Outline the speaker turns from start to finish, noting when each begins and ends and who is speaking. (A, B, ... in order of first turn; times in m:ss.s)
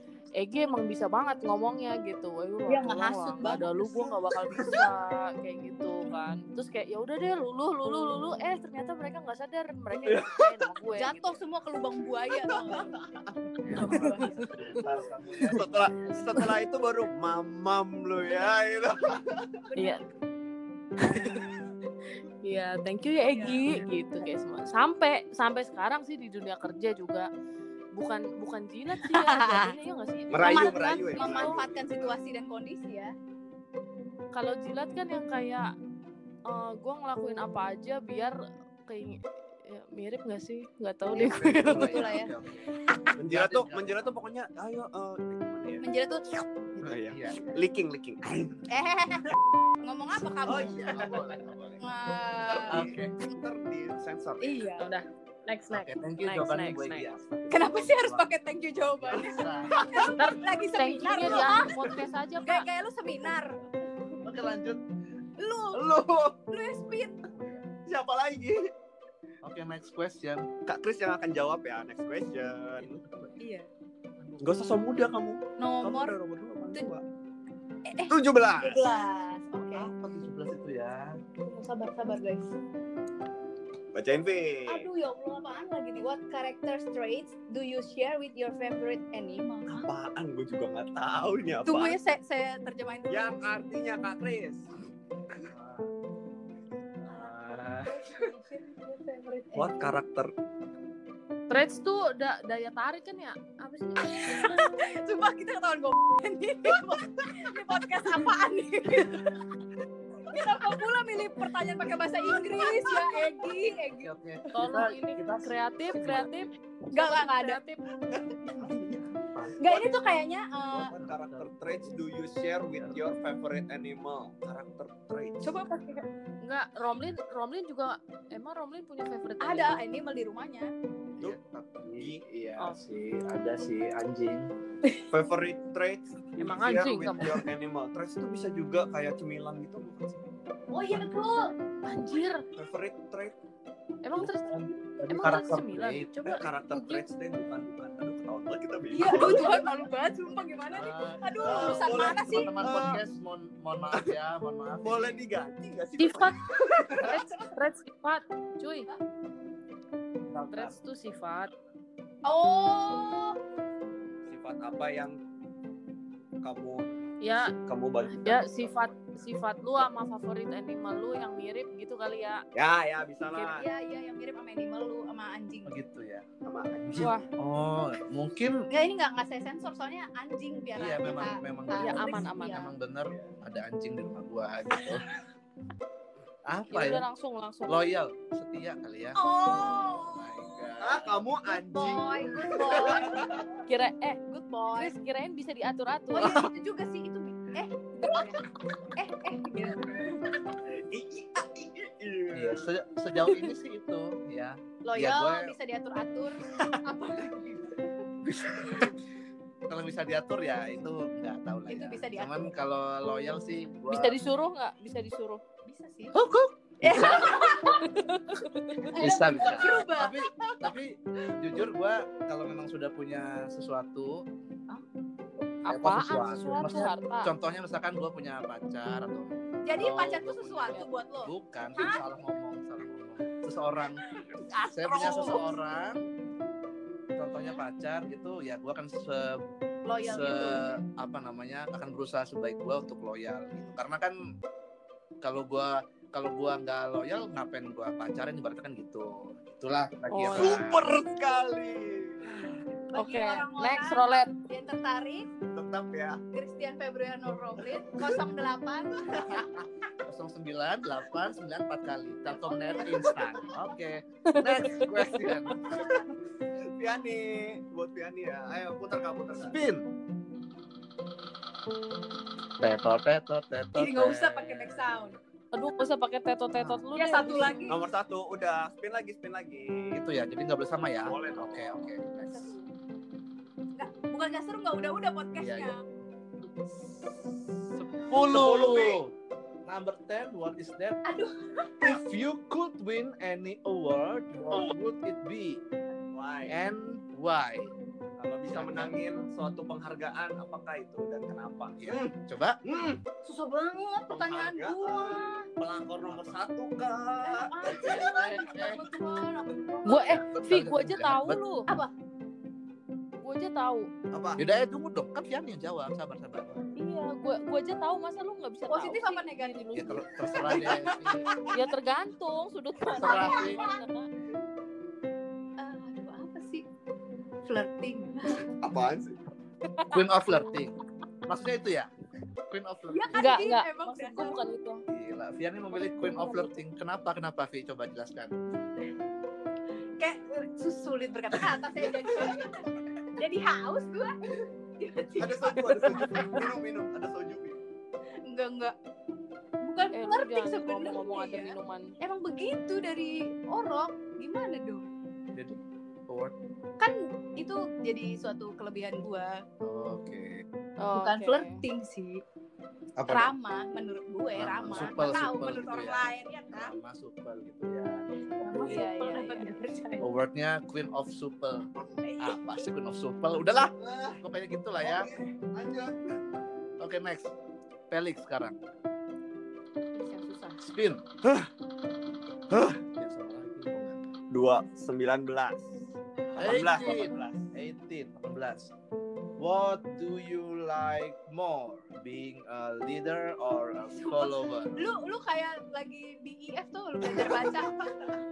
0:00.4-0:11.3 A
0:02.7-0:04.6 B
0:10.1-0:10.4 C
0:11.0-0:13.0 B
0:13.6-0:14.7 B
0:13.7-0:14.7 A
0:14.5-0:16.4 D
0:14.6-0:19.6 C
0:19.7-0:20.0 B
0:19.8-0:20.0 A
0:21.0-0:21.5 A
0:22.4-0:27.3 A
0:23.2-0:23.8 B
0:27.9-0:31.5 A
0:29.0-0:29.7 B
0:30.3-0:32.2 C
0:30.3-0:33.1 B
0:34.3-0:35.7 A
0:36.5-0:38.4 A
0:38.9-0:42.1 A
0:41.1-0:44.1 D
0:41.5-0:42.3 B
0:43.2-0:45.8 C
0:45.8-0:46.9 B
0:46.8-0:48.7 C
0:47.1-0:47.6 D
0:48.7-0:49.3 B
0:49.8-0:51.1 B
0:50.4-0:51.8 C
0:50.9-0:51.6 D
0:51.8-0:52.8 B
0:52.5-0:54.4 C
0:52.7-0:53.1 D
0:54.4-0:54.9 B
0:54.8-0:57.1 A
0:55.7-0:58.2 D
0:57.5-1:01.7 B
0:59.0-1:00.1 D
0:59.1-1:00.1 C
1:00.2-1:02.7 A
1:01.2-1:02.0 C
1:02.4-1:03.6 B
1:04.2-1:04.8 D
1:05.4-1:05.8 B
1:05.7-1:06.4 C
1:06.5-1:07.3 B
1:07.3-1:07.6 D
1:07.9-1:08.7 C
1:09.4-1:10.5 D
1:10.7-1:12.9 C
1:12.8-1:13.4 D
1:13.4-1:13.7 B
1:14.2-1:15.1 D
1:14.4-1:17.0 C
1:15.6-1:16.2 B
1:17.9-1:19.9 B
1:18.1-1:18.9 C
1:19.7-1:21.2 D
1:21.4-1:22.6 B
1:23.9-1:24.9 C
1:24.7-1:29.9 B
1:29.7-1:32.0 C
1:31.7-1:33.4 B
1:33.1-1:34.7 C
1:35.5-1:35.9 D
1:37.0-1:37.9 D
1:37.1-1:40.0 B
1:39.6-1:40.3 C
1:41.5-1:44.5 A
1:44.2-1:49.4 B
1:50.2-1:54.1 B
1:53.9-1:56.5 D
1:54.5-1:57.8 A
1:56.9-1:57.6 B
1:58.2-1:58.7 C
1:58.6-1:59.6 D
1:59.6-2:00.9 B
2:00.7-2:02.0 D
2:00.8-2:05.6 C
2:02.7-2:03.0 D
2:05.4-2:06.1 B
2:06.4-2:09.8 A
2:09.4-2:10.7 B
2:11.2-2:14.5 D
2:12.0-2:12.2 C
2:15.1-2:20.2 C
2:16.4-2:17.4 A
2:20.7-2:21.5 B
2:21.8-2:22.4 A
2:22.6-2:23.4 C
2:24.0-2:27.0 A
2:24.1-2:26.1 D
2:26.2-2:29.6 C
2:28.9-2:32.5 B
2:30.7-2:35.2 D
2:31.4-2:33.0 C
2:34.8-2:37.2 C
2:36.0-2:36.4 A
2:36.9-2:38.9 A
2:40.2-2:40.8 D
2:40.5-2:41.5 A
2:42.2-2:43.4 B
2:44.2-2:45.2 C
2:46.4-2:47.0 C
2:47.2-2:47.5 A
2:47.6-2:48.9 C
2:48.1-2:52.4 A
2:52.6-2:53.6 C
2:53.3-2:55.8 B
2:55.7-2:56.2 D
2:56.4-2:57.2 C
2:57.0-2:57.2 A
2:57.4-2:58.6 D
2:58.7-3:02.7 B
3:00.8-3:05.0 D
3:01.8-3:02.7 A
3:06.4-3:07.0 D
3:06.7-3:07.9 A
3:07.7-3:11.2 D
3:09.1-3:10.7 B
3:10.8-3:13.4 C
3:11.4-3:13.4 B
3:13.7-3:14.2 A
3:14.3-3:14.9 B
3:14.8-3:16.4 A
3:16.1-3:18.4 B
3:19.0-3:20.3 B
3:20.6-3:22.7 C
3:22.3-3:25.5 D
3:24.8-3:27.8 B
3:28.5-3:28.8 D
3:29.7-3:34.2 D
3:31.7-3:32.5 B
3:33.9-3:35.4 A
3:35.6-3:36.1 B
3:36.1-3:37.5 D
3:36.8-3:37.8 B
3:37.7-3:39.1 A
3:38.9-3:40.3 B
3:38.9-3:44.2 D
3:45.4-3:54.0 D
3:45.7-3:47.3 A
3:49.6-3:52.0 B
3:54.3-3:55.5 B
3:54.7-3:56.0 D
3:57.1-3:59.4 D
3:59.8-4:00.8 B
4:00.0-4:04.2 D
4:05.2-4:10.8 D
4:10.1-4:10.6 A
4:10.4-4:12.2 C
4:12.9-4:14.3 A
4:12.9-4:15.3 B
4:15.5-4:16.2 C
4:16.3-4:19.5 B
4:20.0-4:25.8 D
4:22.3-4:23.5 B
4:24.3-4:25.2 A
4:25.7-4:26.0 C
4:26.8-4:29.6 C
4:29.3-4:29.9 D
4:32.6-4:35.2 D
4:33.8-4:35.2 B
4:35.5-4:37.6 A
4:36.5-4:36.9 D
4:37.0-4:37.8 B
4:37.7-4:40.0 C
4:39.9-4:42.5 D
4:41.0-4:41.9 C
4:42.2-4:42.7 B
4:43.8-4:45.8 B
4:45.3-4:45.8 D
4:47.8-4:49.1 D
4:48.1-4:49.0 C
4:49.6-4:51.0 D
4:51.0-4:52.0 B
4:51.8-4:55.6 D
4:56.1-4:56.6 C
4:56.5-4:57.7 D
4:58.2-5:02.1 C
4:58.5-4:58.9 D
5:01.8-5:02.6 D
5:02.6-5:03.0 C
5:03.2-5:05.5 B
5:04.1-5:08.2 C
5:06.0-5:06.3 D
5:07.2-5:10.1 B
5:07.8-5:08.9 D
5:08.1-5:08.4 A
5:09.8-5:11.7 A
5:10.0-5:11.4 D
5:13.2-5:13.9 A
5:14.1-5:14.4 C
5:14.4-5:16.5 D
5:16.8-5:24.1 A
5:18.7-5:20.8 B
5:19.8-5:21.3 D
5:20.4-5:21.7 C
5:22.9-5:23.6 D
5:22.9-5:23.8 B
5:25.6-5:26.6 B
5:27.5-5:28.5 B
5:28.6-5:29.2 C
5:29.9-5:30.7 D
5:31.2-5:31.9 D
5:32.5-5:33.2 D
5:32.9-5:34.4 B
5:33.1-5:34.8 A
5:34.9-5:38.3 D
5:35.8-5:36.5 A
5:40.0-5:44.2 B
5:44.8-5:45.9 B
5:45.1-5:47.6 C
5:45.8-5:46.4 A
5:48.2-5:48.8 B
5:49.6-5:54.8 B
5:49.9-5:51.9 A
5:55.3-5:56.4 D
5:56.8-5:59.4 B
5:59.6-6:00.4 D
6:00.8-6:01.6 A
6:00.9-6:02.2 B
6:03.0-6:03.3 D
6:03.1-6:06.8 B
6:04.4-6:08.0 D
6:08.2-6:10.1 B
6:08.5-6:08.8 D
6:08.7-6:09.5 A
6:10.0-6:11.7 D
6:12.0-6:12.4 B
6:12.2-6:15.1 D
6:13.8-6:14.2 C
6:14.8-6:16.0 C
6:16.8-6:17.3 D
6:17.9-6:18.6 D
6:19.9-6:20.6 B
6:20.6-6:21.0 D
6:21.2-6:21.5 C
6:22.5-6:22.8 C
6:23.0-6:24.0 D
6:24.3-6:25.7 C
6:26.3-6:27.5 C
6:26.4-6:28.7 D
6:29.4-6:34.9 D
6:33.9-6:38.2 B